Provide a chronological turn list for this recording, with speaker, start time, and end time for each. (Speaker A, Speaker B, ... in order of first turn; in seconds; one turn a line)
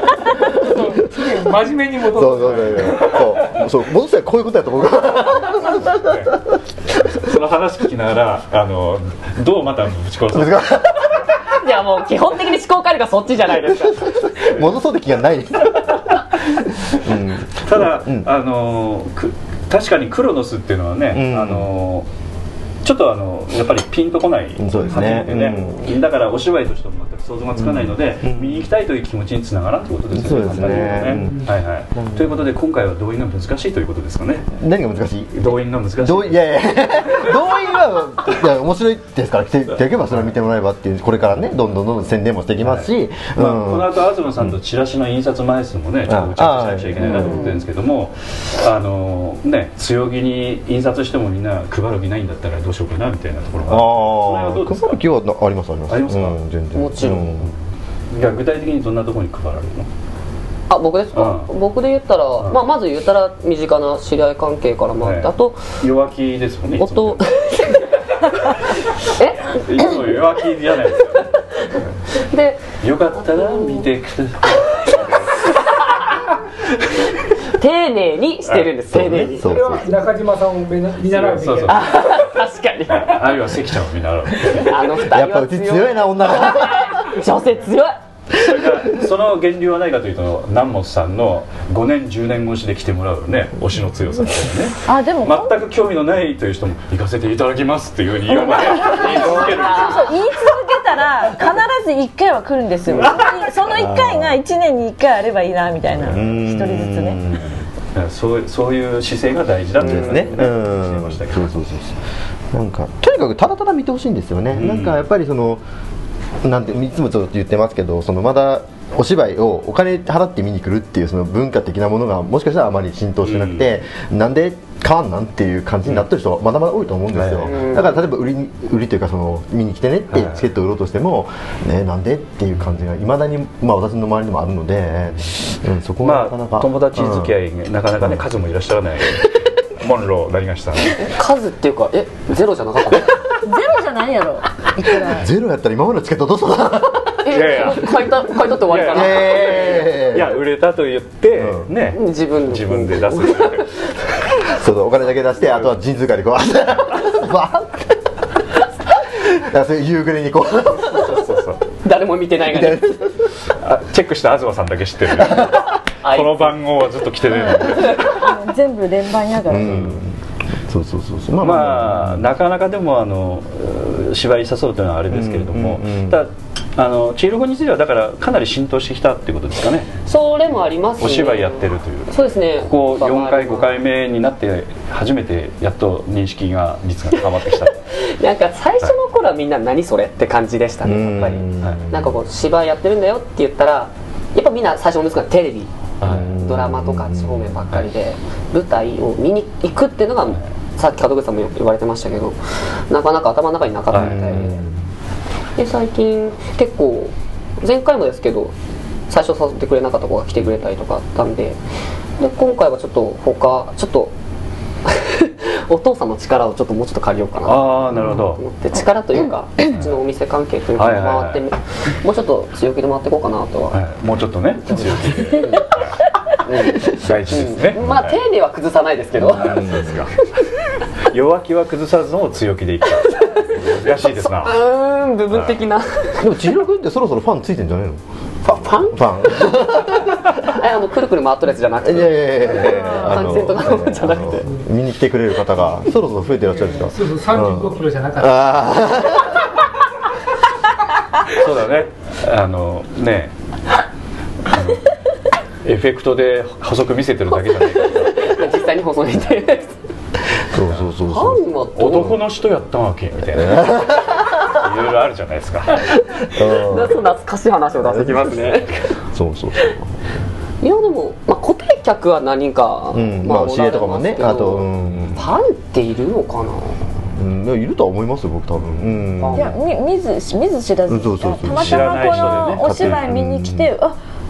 Speaker A: 0.4-3.6
Speaker B: 2.1-6.2
Speaker C: 5.9-6.3
Speaker C: 7.0-10.8
Speaker B: 10.3-11.1
Speaker D: 11.4-14.5
Speaker B: 14.4-16.0
Speaker B: 16.9-18.3
Speaker C: 17.6-22.1
Speaker B: 21.1-21.7
Speaker C: 22.8-34.5
Speaker B: 24.6-25.9
Speaker B: 27.6-28.6
Speaker B: 30.1-32.2
Speaker B: 34.5-44.5
Speaker C: 35.3-36.8
Speaker C: 42.6-55.0
Speaker B: 46.1-47.5
Speaker D: 47.0-47.6
Speaker B: 53.7-57.5
Speaker C: 55.9-56.4
Speaker D: 56.7-57.3
Speaker C: 57.0-57.6
Speaker C: 58.1-59.9
Speaker D: 60.7-65.7
Speaker C: 61.1-61.5
Speaker C: 65.0-67.3
Speaker D: 66.8-67.8
Speaker D: 69.2-69.9
Speaker C: 69.5-71.3
Speaker D: 72.2-73.9
Speaker C: 72.8-75.3
Speaker D: 75.4-76.1
Speaker D: 77.4-79.7
Speaker C: 78.5-78.7
Speaker B: 78.9-79.9
Speaker A: 79.4-81.8
Speaker C: 81.3-82.3
Speaker D: 81.7-83.3
Speaker C: 82.9-84.9
Speaker D: 84.4-88.5
Speaker B: 85.0-87.2
Speaker C: 88.3-100.2
Speaker E: 94.8-95.6
Speaker E: 98.3-107.2
Speaker D: 98.8-100.1
Speaker B: 103.7-104.4
Speaker B: 106.0-107.6
Speaker C: 107.9-111.5
Speaker B: 109.8-112.0
Speaker B: 112.5-115.6
Speaker C: 114.5-115.0
Speaker B: 116.4-137.3
Speaker C: 123.2-123.7
Speaker C: 127.1-127.6
Speaker D: 127.4-128.0
Speaker C: 130.1-130.4
Speaker C: 136.0-141.0
Speaker B: 138.0-138.2
Speaker D: 140.9-143.2
Speaker E: 143.4-145.2
Speaker B: 144.9-147.6
Speaker D: 147.2-149.8
Speaker C: 147.3-147.9
Speaker C: 148.6-153.7
Speaker B: 148.9-150.4
Speaker B: 151.3-151.7
Speaker D: 151.9-153.7
Speaker B: 154.5-157.9
Speaker B: 159.0-161.4
Speaker C: 161.0-161.6
Speaker D: 161.7-163.1
Speaker B: 162.4-163.3
Speaker C: 163.6-168.1
Speaker D: 166.0-166.5
Speaker D: 167.7-168.1
Speaker E: 168.0-169.8
Speaker B: 169.4-172.3
Speaker C: 171.4-179.9
Speaker B: 175.1-176.2
Speaker D: 180.1-183.8
Speaker C: 181.0-187.8
Speaker D: 187.9-204.6
Speaker B: 190.8-192.1
Speaker C: 196.0-196.4
Speaker B: 196.0-197.5
Speaker C: 203.9-204.4
Speaker B: 203.9-204.8
Speaker D: 205.6-208.5
Speaker D: 209.1-211.6
Speaker D: 212.2-214.1
Speaker D: 214.8-223.8
Speaker C: 217.4-218.4
Speaker C: 220.8-221.4
Speaker C: 223.7-226.0
Speaker D: 224.7-225.7
Speaker D: 226.4-230.0
Speaker C: 226.9-228.2
Speaker C: 229.2-230.1
Speaker B: 229.3-230.0
Speaker C: 231.1-234.6
Speaker D: 233.1-236.3
Speaker C: 235.3-235.6
Speaker B: 236.2-240.3
Speaker D: 238.5-244.5
Speaker B: 241.8-249.4
Speaker A: 246.7-248.5
Speaker C: 251.3-253.3
Speaker C: 254.5-254.9
Speaker C: 255.6-258.3
Speaker D: 258.0-259.8
Speaker B: 260.5-261.4
Speaker D: 261.0-262.2
Speaker C: 261.8-265.8
Speaker B: 263.3-264.2
Speaker D: 266.2-268.9
Speaker B: 266.3-267.0
Speaker B: 267.8-268.6
Speaker B: 269.1-269.9
Speaker D: 270.6-276.8
Speaker B: 272.9-275.2
Speaker C: 274.9-275.2
Speaker B: 277.1-279.5
Speaker D: 279.2-279.6
Speaker E: 279.3-284.0
Speaker B: 280.9-283.7
Speaker C: 281.5-283.1